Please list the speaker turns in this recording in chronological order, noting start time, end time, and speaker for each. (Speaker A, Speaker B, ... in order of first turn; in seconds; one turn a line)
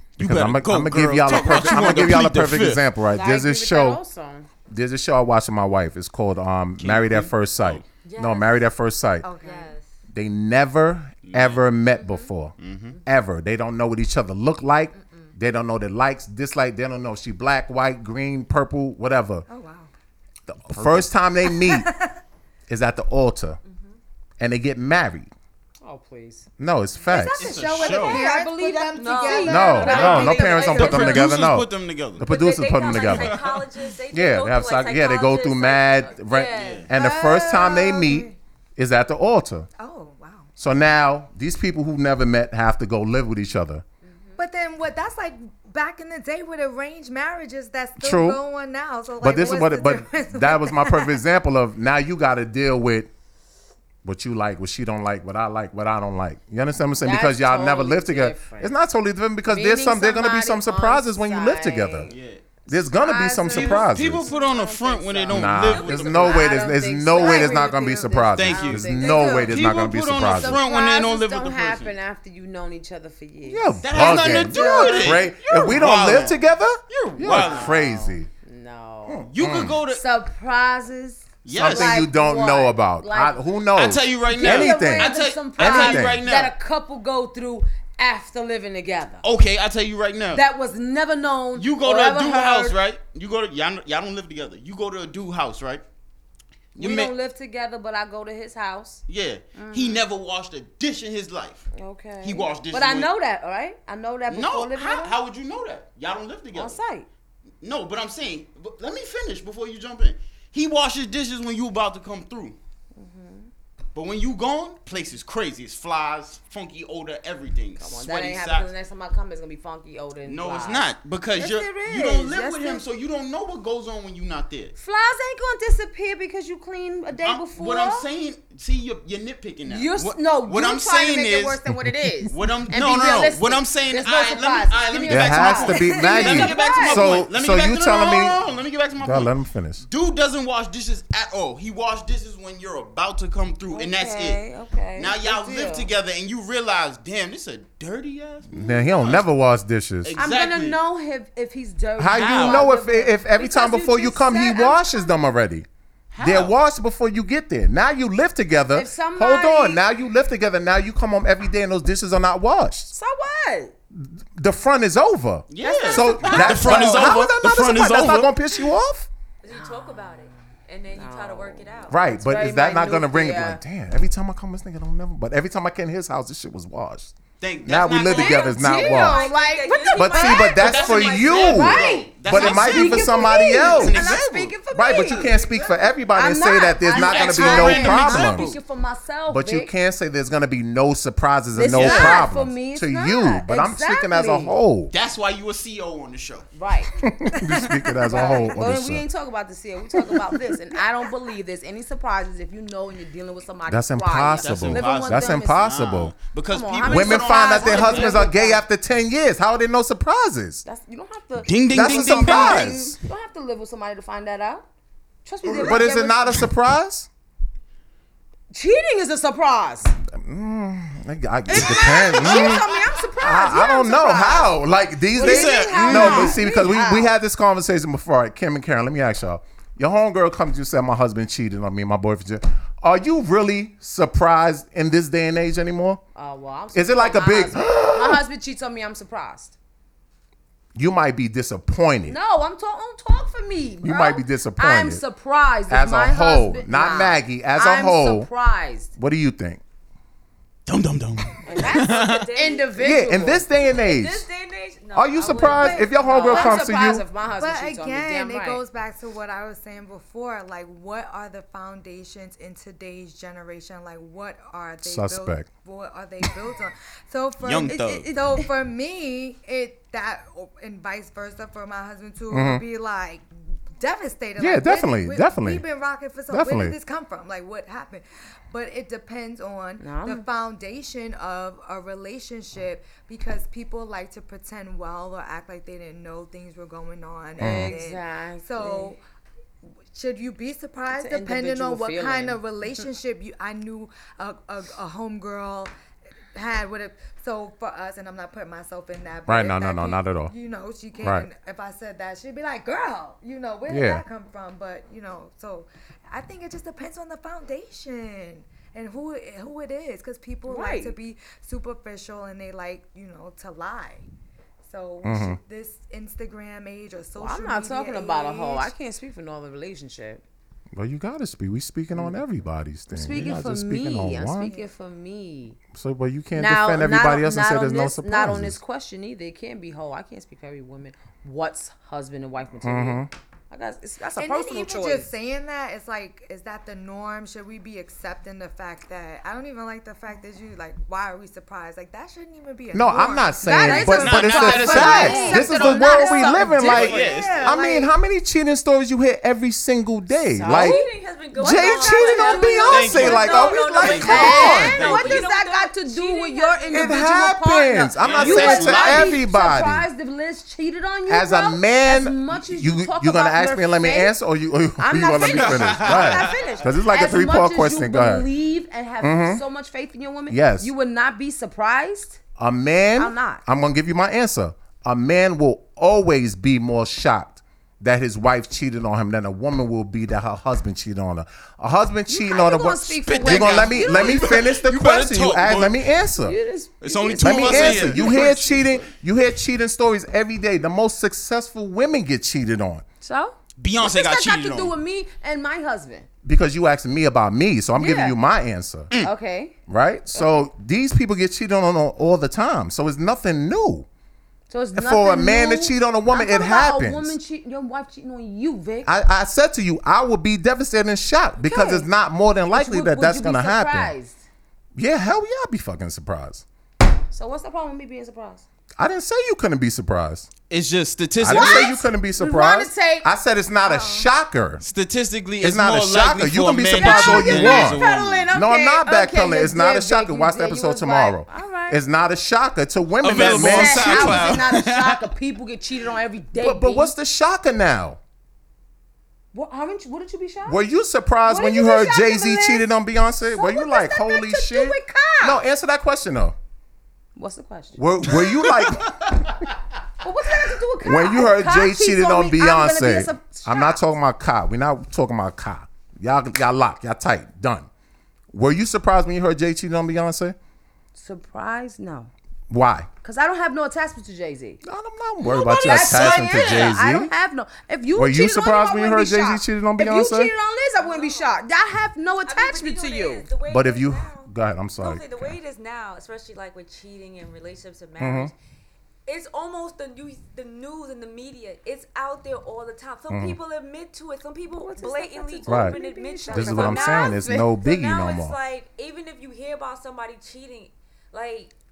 Speaker A: 0.2-2.9
Speaker B: 0.2-4.0
Speaker C: 3.1-4.5
Speaker B: 4.7-9.3
Speaker A: 6.8-7.9
Speaker D: 8.0-8.7
Speaker E: 9.2-9.8
Speaker D: 9.4-9.9
Speaker B: 10.1-19.5
Speaker A: 11.2-11.6
Speaker C: 12.0-12.3
Speaker A: 12.6-13.0
Speaker D: 14.9-15.3
Speaker E: 19.5-19.9
Speaker B: 20.5-21.9
Speaker A: 20.7-21.1
Speaker E: 21.4-22.2
Speaker B: 22.7-23.6
Speaker D: 23.6-24.0
Speaker B: 24.4-25.3
Speaker C: 25.8-26.5
Speaker B: 26.6-27.5
Speaker E: 27.1-31.1
Speaker A: 27.3-28.3
Speaker C: 27.7-30.9
Speaker D: 29.0-31.3
Speaker B: 29.5-33.4
Speaker A: 29.9-32.3
Speaker D: 32.2-36.9
Speaker A: 32.9-33.6
Speaker B: 34.1-39.7
Speaker A: 36.5-36.9
Speaker E: 36.9-38.4
Speaker E: 39.8-40.5
Speaker B: 40.6-43.8
Speaker D: 44.0-44.4
Speaker E: 44.4-51.2
Speaker B: 48.0-48.4
Speaker B: 49.2-53.1
Speaker B: 54.0-62.1
Speaker C: 57.0-58.8
Speaker C: 59.5-62.1
Speaker A: 62.1-62.6
Speaker B: 62.7-64.3
Speaker C: 62.7-69.6
Speaker A: 63.5-66.5
Speaker B: 65.3-70.6
Speaker D: 65.6-66.6
Speaker E: 67.1-68.1
Speaker A: 68.3-72.0
Speaker E: 68.8-69.5
Speaker C: 70.3-73.9
Speaker B: 73.4-78.3
Speaker A: 73.8-77.7
Speaker E: 74.5-75.2
Speaker C: 77.2-79.3
Speaker B: 79.1-79.8
Speaker A: 79.3-80.0
Speaker C: 79.9-83.4
Speaker A: 81.4-82.0
Speaker B: 81.5-86.2
Speaker A: 83.7-86.5
Speaker C: 84.3-89.2
Speaker A: 89.2-90.4
Speaker C: 90.3-92.8
Speaker A: 91.5-95.8
Speaker A: 96.8-97.1
Speaker C: 96.8-99.0
Speaker A: 99.1-101.7
Speaker C: 99.5-100.1
Speaker C: 101.7-105.2
Speaker A: 102.2-103.1
Speaker A: 104.3-106.8
Speaker C: 106.5-107.1
Speaker A: 107.6-112.6
Speaker C: 113.0-113.5
Speaker A: 114.0-118.7
Speaker C: 117.8-122.8
Speaker A: 120.2-124.7
Speaker C: 124.8-128.1
Speaker A: 127.2-131.6
Speaker C: 129.7-137.2
Speaker B: 131.7-132.1
Speaker A: 132.3-144.4
Speaker B: 135.1-138.4
Speaker E: 135.9-136.4
Speaker B: 139.0-139.8
Speaker C: 143.7-145.9
Speaker A: 145.0-149.3
Speaker B: 148.5-150.2
Speaker A: 150.0-150.8
Speaker C: 150.2-155.1
Speaker B: 152.0-155.7
Speaker A: 152.1-152.7
Speaker A: 156.1-156.6
Speaker B: 156.2-162.9
Speaker C: 158.7-159.8
Speaker C: 162.9-163.8
Speaker B: 163.9-169.1
Speaker A: 165.5-168.3
Speaker C: 165.6-167.2
Speaker D: 169.4-172.0
Speaker C: 169.5-170.4
Speaker C: 170.9-173.6
Speaker B: 171.9-179.3
Speaker A: 177.4-178.7
Speaker C: 178.1-180.7
Speaker D: 178.6-181.6
Speaker B: 179.9-184.1
Speaker A: 180.4-185.8
Speaker C: 181.4-185.5
Speaker B: 184.7-188.5
Speaker C: 186.1-189.7
Speaker A: 186.8-188.6
Speaker B: 189.3-194.9
Speaker C: 191.5-194.6
Speaker A: 191.7-192.3
Speaker A: 194.9-196.5
Speaker C: 196.5-196.9
Speaker B: 197.0-199.1
Speaker C: 198.1-205.7
Speaker B: 203.7-206.1
Speaker A: 204.4-208.3
Speaker C: 206.5-208.6
Speaker B: 206.9-210.7
Speaker C: 210.7-214.7
Speaker A: 211.4-212.9
Speaker B: 211.7-213.0
Speaker C: 215.2-216.3
Speaker B: 215.5-217.1
Speaker C: 218.5-220.0
Speaker B: 220.1-222.7
Speaker C: 221.5-224.6
Speaker A: 221.5-222.9
Speaker B: 223.2-236.0
Speaker A: 225.2-226.4
Speaker C: 225.2-227.1
Speaker C: 236.2-239.6
Speaker B: 236.7-238.2
Speaker B: 240.8-242.2
Speaker C: 242.1-248.9
Speaker B: 243.8-245.0
Speaker B: 245.7-248.3
Speaker B: 249.0-249.6
Speaker A: 250.7-252.3
Speaker C: 251.4-253.4
Speaker D: 251.6-252.8
Speaker B: 252.8-254.3
Speaker D: 253.6-256.7
Speaker B: 254.9-257.1
Speaker C: 255.4-258.6
Speaker E: 257.3-273.3
Speaker B: 264.8-265.5
Speaker A: 267.4-268.1
Speaker C: 267.7-268.0
Speaker B: 272.3-272.6
Speaker E: 273.8-289.0
Speaker B: 274.4-275.6
Speaker B: 276.3-276.8
Speaker C: 279.8-280.2
Speaker C: 287.4-288.9
Speaker B: 287.4-287.8
Speaker E: 289.9-295.7
Speaker C: 290.9-292.4
Speaker E: 296.3-314.1
Speaker B: 299.3-300.3
Speaker B: 301.0-301.3
Speaker B: 303.7-304.0
Speaker C: 310.5-310.9
Speaker E: 314.6-318.7
Speaker B: 315.0-315.4
Speaker C: 317.2-320.2
Speaker B: 320.7-324.6
Speaker C: 322.9-325.6
Speaker B: 325.7-328.6
Speaker C: 326.3-335.1
Speaker B: 332.6-333.1
Speaker E: 334.2-347.9
Speaker B: 342.7-354.8
Speaker C: 343.4-347.4
Speaker A: 343.9-345.9
Speaker A: 346.5-347.6
Speaker C: 350.4-364.1
Speaker D: 350.5-357.0
Speaker A: 352.7-355.3
Speaker B: 356.7-359.9
Speaker A: 358.0-359.2
Speaker B: 361.1-368.3
Speaker C: 364.8-372.2
Speaker A: 365.3-366.4
Speaker B: 369.0-369.4
Speaker B: 370.3-370.7
Speaker B: 372.4-386.4
Speaker C: 373.0-373.4
Speaker C: 382.1-384.4
Speaker A: 383.1-385.9
Speaker C: 386.2-388.3
Speaker A: 386.8-388.9
Speaker B: 387.2-392.8
Speaker C: 393.0-396.1
Speaker A: 393.6-394.8
Speaker B: 396.2-398.9
Speaker C: 397.8-398.2
Speaker C: 399.0-399.6
Speaker B: 399.7-403.9
Speaker C: 404.5-408.9
Speaker B: 404.7-407.2
Speaker B: 408.9-413.9
Speaker C: 411.4-411.9
Speaker C: 412.5-414.2
Speaker B: 414.8-416.4
Speaker C: 417.1-418.4
Speaker B: 418.8-420.3
Speaker A: 420.5-421.8
Speaker B: 421.2-424.6
Speaker C: 421.3-423.1
Speaker E: 423.6-424.1
Speaker A: 424.6-428.3
Speaker B: 425.4-434.4
Speaker C: 426.8-431.8
Speaker A: 433.0-435.1
Speaker C: 433.1-436.9
Speaker B: 436.4-438.0
Speaker C: 439.3-440.6
Speaker B: 440.4-446.4
Speaker C: 441.2-442.7
Speaker C: 443.3-445.4
Speaker C: 447.2-447.9
Speaker B: 447.8-449.4
Speaker A: 448.1-448.9
Speaker C: 450.0-453.8
Speaker B: 450.8-457.7
Speaker B: 458.3-460.4
Speaker C: 461.0-462.1
Speaker B: 462.5-462.9
Speaker C: 463.0-464.6
Speaker B: 464.6-467.1
Speaker C: 465.2-473.3
Speaker B: 467.9-470.3
Speaker D: 470.7-471.4
Speaker D: 472.2-478.4
Speaker B: 473.5-475.4
Speaker B: 478.0-478.3
Speaker D: 479.1-491.5
Speaker B: 483.1-483.4
Speaker C: 484.6-487.6
Speaker B: 485.5-485.8
Speaker B: 486.3-488.4